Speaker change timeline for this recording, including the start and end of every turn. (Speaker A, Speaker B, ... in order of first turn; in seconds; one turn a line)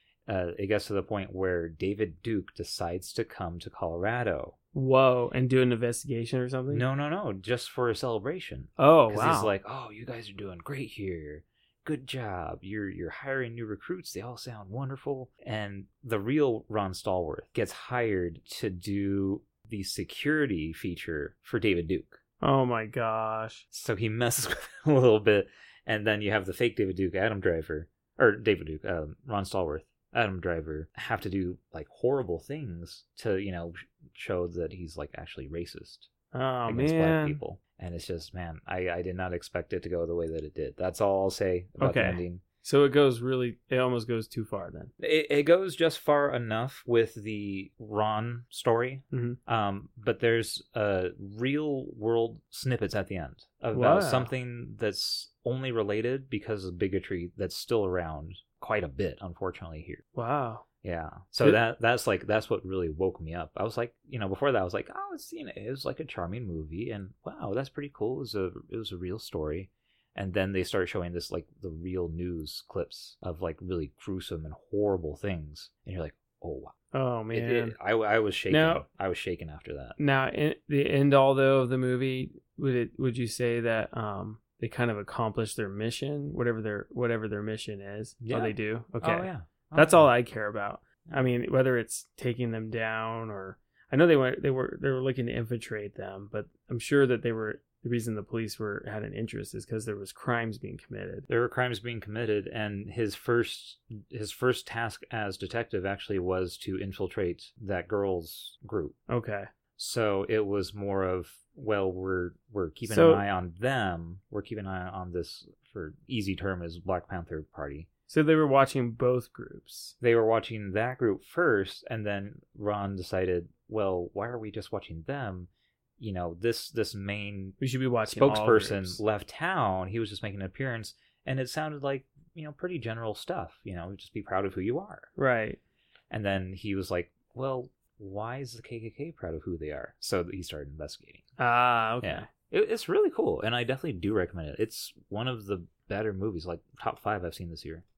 Speaker A: 0.3-4.5
Speaker B: 4.7-6.8
Speaker A: 6.7-22.2
Speaker B: 8.8-9.5
Speaker B: 22.4-23.6
Speaker A: 23.7-36.1
Speaker B: 36.3-37.4
Speaker A: 36.7-42.4
Speaker B: 41.8-44.9
Speaker A: 45.0-60.0
Speaker B: 49.1-49.4
Speaker B: 53.7-54.3
Speaker B: 60.1-60.6
Speaker A: 60.8-76.7
Speaker B: 76.9-77.8
Speaker A: 77.3-80.0
Speaker B: 78.5-78.8
Speaker B: 80.0-101.3
Speaker A: 88.2-90.1
Speaker A: 101.3-109.0
Speaker B: 109.1-109.5
Speaker A: 109.8-117.9
Speaker B: 112.9-113.2
Speaker B: 118.1-119.9
Speaker A: 120.0-135.1
Speaker B: 127.6-129.0
Speaker B: 135.2-135.6
Speaker A: 136.1-141.2
Speaker B: 141.4-142.3
Speaker A: 142.0-147.8